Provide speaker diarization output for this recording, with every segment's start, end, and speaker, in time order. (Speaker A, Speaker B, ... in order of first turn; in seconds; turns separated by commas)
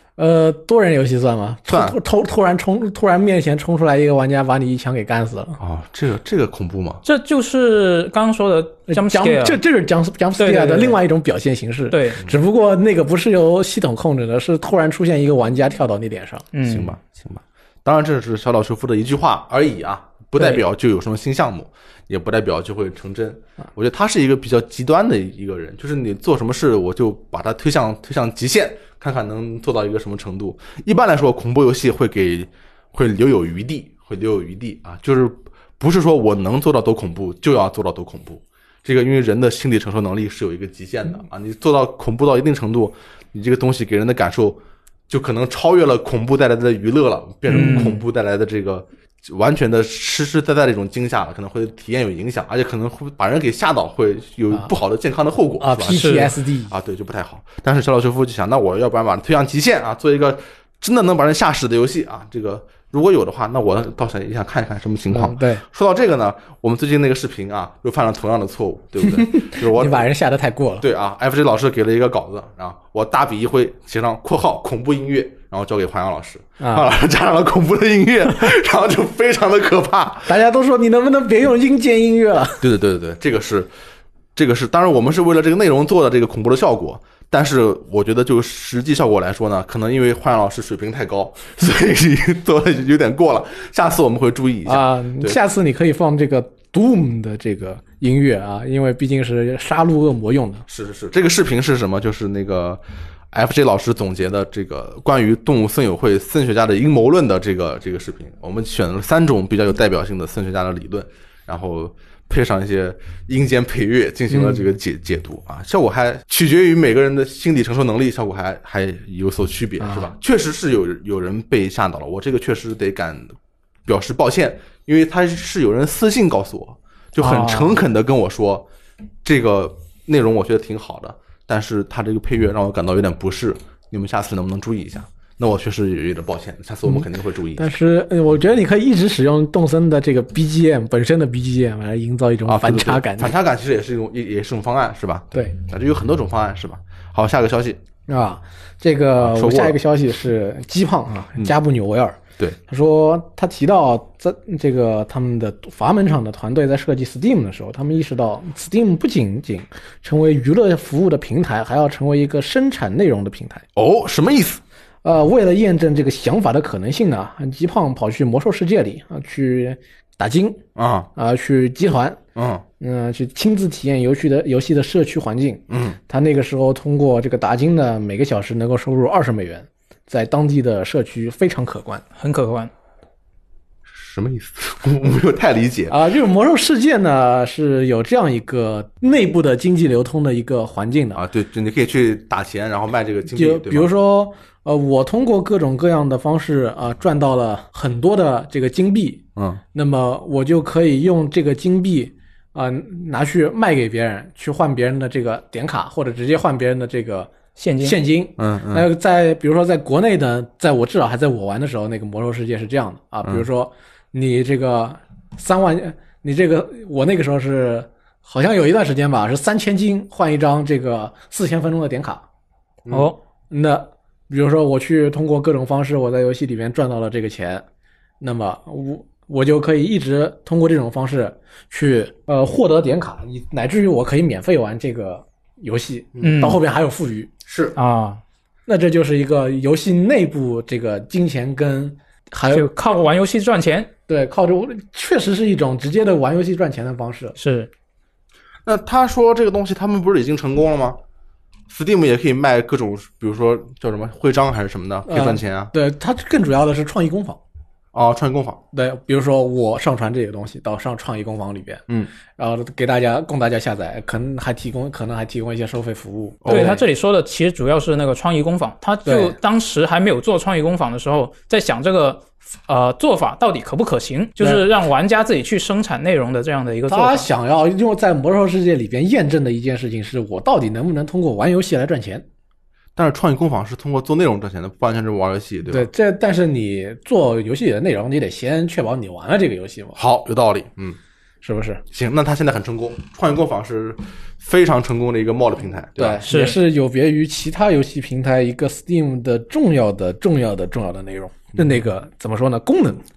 Speaker A: 0.2-5.6, Speaker B: 1.7-2.0, Speaker B: 5.6-7.0, Speaker C: 7.0-9.6, Speaker A: 8.9-16.4, Speaker C: 10.4-11.0, Speaker C: 11.9-12.2, Speaker C: 16.5-16.9, Speaker B: 16.6-70.0, Speaker C: 47.5-48.0, Speaker A: 47.5-47.9, Speaker A: 55.6-56.7, Speaker C: 55.9-56.3, Speaker A: 65.1-65.6, Speaker A: 69.0-70.8, Speaker B: 70.8-80.4, Speaker A: 76.6-76.9, Speaker A: 80.3-82.6, Speaker B: 82.6-83.7, Speaker B: 84.3-95.4, Speaker A: 94.7-100.6, Speaker B: 100.7-128.7, Speaker A: 114.3-114.6, Speaker A: 119.8-120.1, Speaker A: 127.2-127.7, Speaker C: 127.2-127.6, Speaker B: 129.2-137.7, Speaker A: 136.8-143.3, Speaker B: 142.5-147.8, Speaker A: 148.1-163.6, Speaker B: 149.2-149.8, Speaker B: 163.8-164.6, Speaker A: 165.0-170.6, Speaker B: 170.8-171.1, Speaker A: 171.1-172.2, Speaker B: 172.3-172.6, Speaker A: 172.8-182.0, Speaker B: 175.7-176.0, Speaker C: 182.2-182.7, Speaker B: 183.9-186.0, Speaker A: 185.9-191.2, Speaker B: 191.2-193.9, Speaker A: 193.3-222.2, Speaker C: 207.6-208.0, Speaker B: 208.4-208.9, Speaker C: 222.9-223.2, Speaker A: 223.5-227.6, Speaker A: 228.2-237.3, Speaker C: 236.2-236.6, Speaker B: 237.4-237.8, Speaker C: 237.8-238.2, Speaker A: 238.7-242.7, Speaker C: 242.5-243.9, Speaker A: 244.1-247.4, Speaker C: 247.4-247.7, Speaker B: 248.7-251.0, Speaker B: 251.7-255.7, Speaker A: 255.1-257.4, Speaker B: 257.9-258.6, Speaker A: 258.7-261.8, Speaker A: 262.4-266.8, Speaker B: 266.4-266.8, Speaker C: 266.5-277.3, Speaker A: 269.1-269.4, Speaker A: 276.9-282.2, Speaker B: 282.9-285.9, Speaker A: 285.7-290.0, Speaker B: 289.9-291.0, Speaker A: 291.4-291.8, Speaker B: 291.9-296.2, Speaker A: 296.0-303.0, Speaker C: 296.2-296.6